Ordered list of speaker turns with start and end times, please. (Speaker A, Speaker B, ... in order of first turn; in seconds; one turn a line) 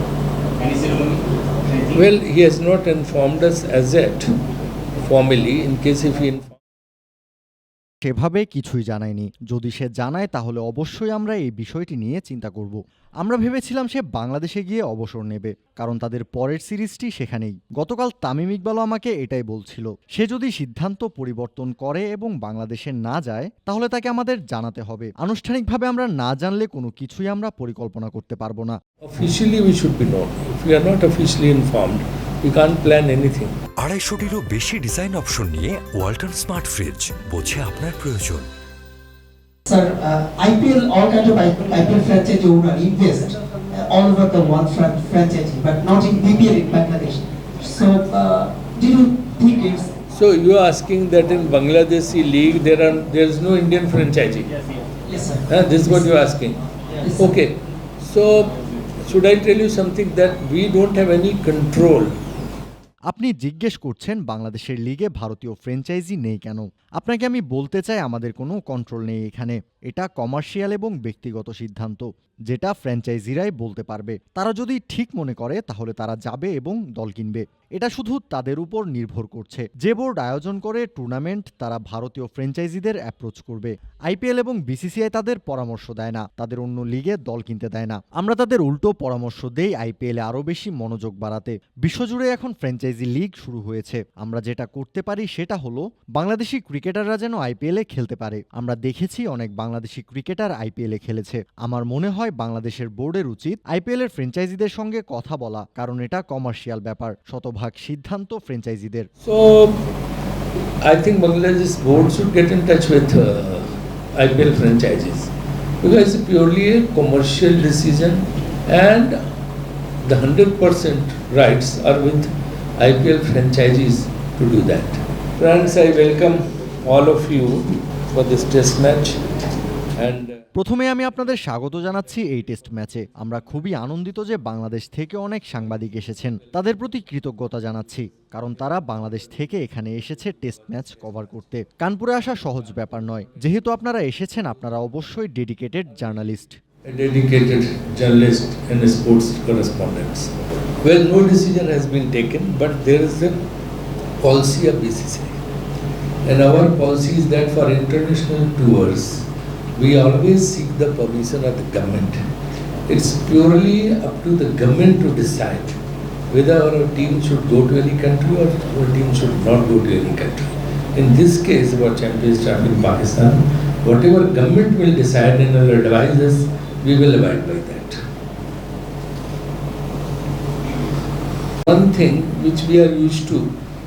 Speaker A: 0.6-2.0
Speaker B: 1.9-4.3
Speaker B: 5.0-6.6
Speaker C: 8.0-28.8
Speaker B: 29.1-33.6
Speaker D: 33.8-38.5
Speaker E: 39.7-49.9
Speaker B: 50.1-54.5
Speaker A: 54.5-55.1
Speaker E: 55.1-56.0
Speaker B: 55.5-62.1
Speaker E: 57.1-57.3
Speaker C: 63.1-109.1
Speaker B: 109.2-109.8
Speaker B: 110.8-119.2
Speaker B: 120.0-129.2
Speaker B: 130.0-130.4
Speaker C: 130.6-146.6
Speaker B: 146.9-153.4
Speaker B: 154.2-155.4
Speaker B: 156.2-162.3
Speaker B: 162.9-165.8
Speaker B: 166.3-178.0
Speaker B: 181.7-183.5